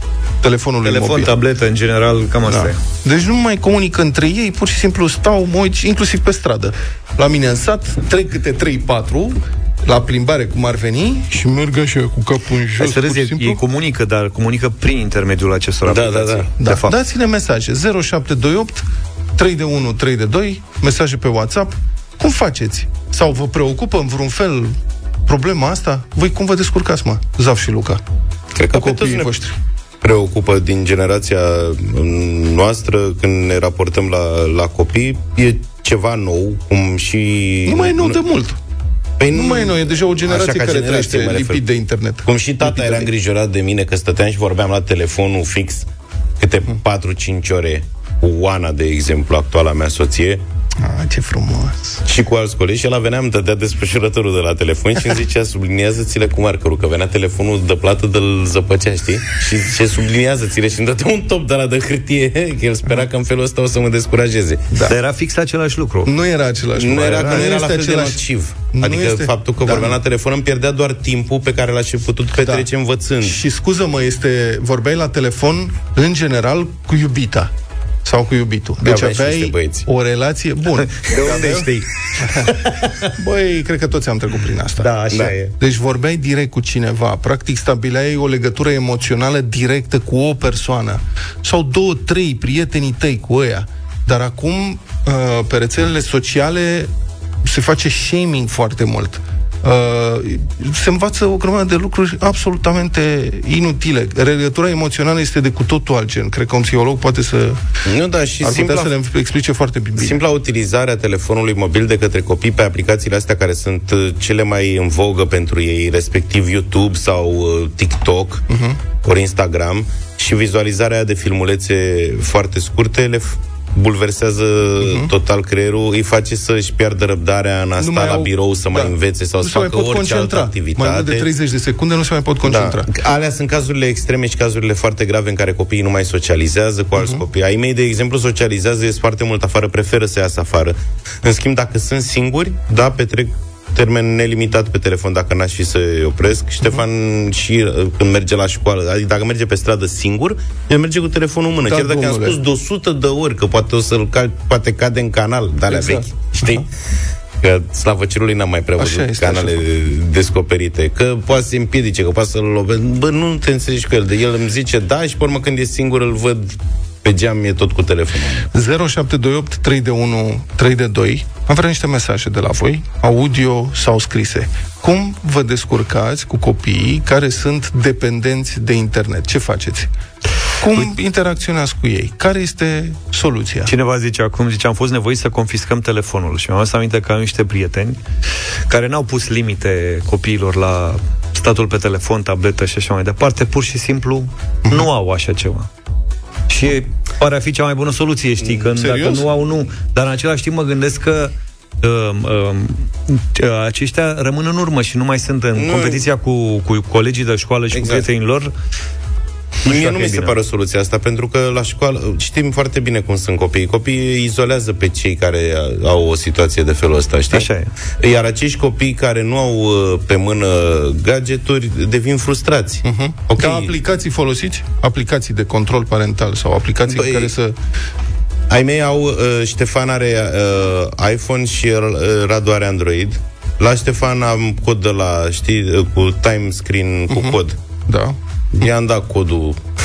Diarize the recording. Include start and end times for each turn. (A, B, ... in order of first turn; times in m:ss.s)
0:00.4-0:01.4 A
0:00.8-0:02.8 B
0:02.4-0:13.6 A
0:12.8-0:17.0 B
0:15.8-0:16.5 C
0:16.6-0:24.8 A
0:25.3-0:28.0 A
0:28.6-0:29.3 C
0:28.7-0:29.6 A
0:30.0-0:38.2 C
0:37.7-0:38.6 A
0:39.2-0:41.6 C
0:39.3-0:43.1 A
0:42.2-0:45.8 C
0:46.4-0:50.4 C
0:50.8-0:52.0 A
0:52.1-1:04.6 C
1:04.9-1:06.1 B
1:06.0-1:10.0 A
1:06.8-1:13.4 C
1:12.4-1:12.7 A
1:13.2-1:17.5 A
1:18.0-1:21.7 A
1:18.8-1:19.8 C
1:20.9-1:22.5 B
1:23.2-1:36.9 A
1:24.8-1:25.5 B
1:37.4-1:47.6 A
1:47.9-1:48.9 C
1:48.4-1:50.2 A
1:50.0-1:58.4 C
1:58.5-1:58.8 A
1:59.0-2:11.3 C
2:04.8-2:05.1 A
2:07.8-2:12.9 A
2:12.5-2:36.7 C
2:17.0-2:17.2 A
2:31.7-2:32.4 A
2:35.7-2:36.6 A
2:37.4-2:48.4 C
2:38.8-2:39.6 A
2:48.5-2:59.9 A
3:00.6-3:03.7 A
3:03.7-3:08.0 B
3:08.7-3:15.7 B
3:16.5-3:28.5 B
3:18.4-3:19.2 C
3:25.6-3:26.1 C
3:27.7-3:28.0 C
3:29.6-3:30.4 B
3:29.7-3:37.5 C
3:37.3-3:37.7 B
3:38.0-3:43.7 C
3:42.8-3:47.6 A
3:46.9-3:47.3 C
3:48.5-3:57.6 C
3:57.1-3:57.4 A
3:57.9-3:58.2 A
3:58.6-3:59.6 C